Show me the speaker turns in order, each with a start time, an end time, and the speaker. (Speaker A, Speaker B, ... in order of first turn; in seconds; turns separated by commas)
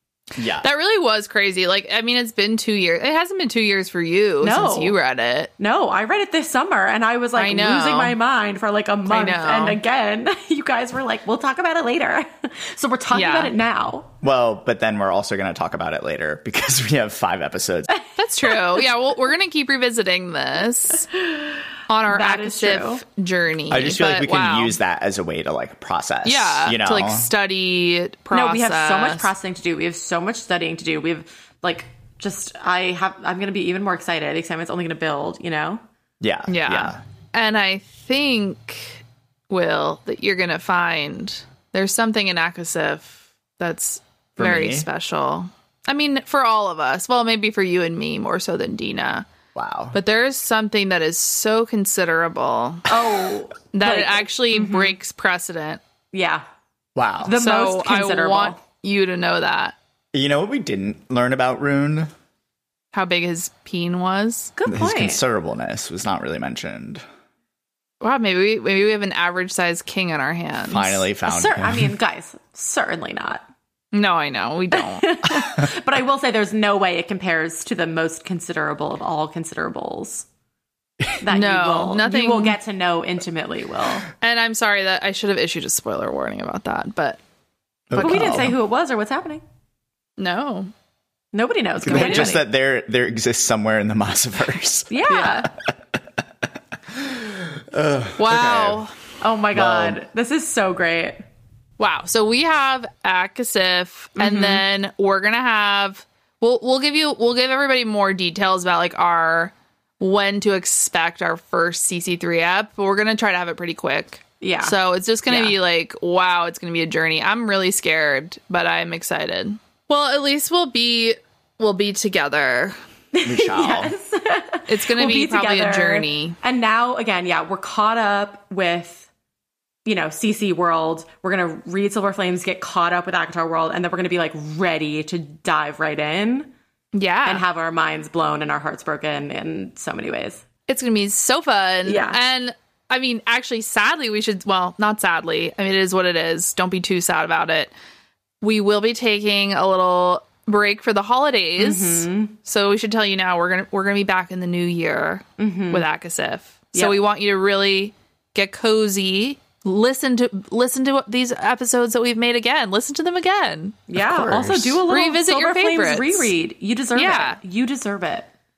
Speaker A: 0.3-0.7, Speaker B: 0.5-5.5, Speaker C: 4.4-4.9, Speaker C: 5.6-14.1, Speaker B: 7.4-8.2, Speaker B: 9.1-9.8, Speaker B: 13.1-13.5, Speaker A: 14.2-18.0, Speaker B: 18.1-21.1, Speaker C: 18.6-18.8, Speaker C: 21.1-23.0, Speaker B: 21.9-24.8, Speaker A: 23.7-27.3, Speaker B: 26.2-29.3, Speaker C: 28.3-35.8, Speaker A: 36.2-37.0, Speaker B: 36.5-49.2, Speaker A: 44.4-44.9, Speaker A: 49.5-50.0, Speaker B: 49.9-53.0, Speaker C: 52.9-55.0, Speaker B: 53.7-55.8, Speaker C: 56.1-56.4, Speaker A: 57.0-57.3, Speaker C: 57.2-58.6, Speaker B: 57.3-59.8, Speaker A: 60.1-62.1, Speaker B: 62.9-64.5, Speaker C: 64.6-65.2, Speaker A: 64.7-67.0, Speaker B: 68.0-71.0, Speaker A: 70.7-71.9, Speaker C: 71.2-73.5, Speaker B: 73.9-75.1, Speaker C: 74.8-80.2, Speaker C: 81.2-84.1, Speaker B: 81.3-82.5, Speaker B: 84.2-87.2, Speaker A: 87.9-88.5, Speaker B: 87.9-88.5, Speaker C: 88.0-89.4, Speaker B: 90.2-90.7, Speaker C: 91.3-92.4, Speaker A: 91.8-95.7, Speaker B: 91.8-92.3, Speaker C: 94.9-95.5, Speaker B: 95.1-95.3, Speaker A: 96.9-98.8, Speaker B: 98.2-98.9, Speaker C: 99.2-101.2, Speaker A: 99.5-100.0, Speaker B: 101.8-122.8, Speaker C: 104.2-104.6, Speaker C: 114.4-114.8, Speaker C: 115.3-115.6, Speaker C: 123.1-129.1, Speaker A: 123.2-123.9, Speaker B: 124.7-126.4, Speaker C: 129.8-136.5, Speaker B: 136.9-137.4, Speaker C: 137.2-140.4, Speaker B: 140.7-147.7, Speaker C: 141.8-142.2, Speaker B: 148.4-163.8, Speaker C: 151.6-152.3, Speaker C: 155.4-155.8, Speaker C: 163.9-168.3, Speaker A: 163.9-164.8, Speaker B: 164.9-166.3, Speaker B: 166.9-167.4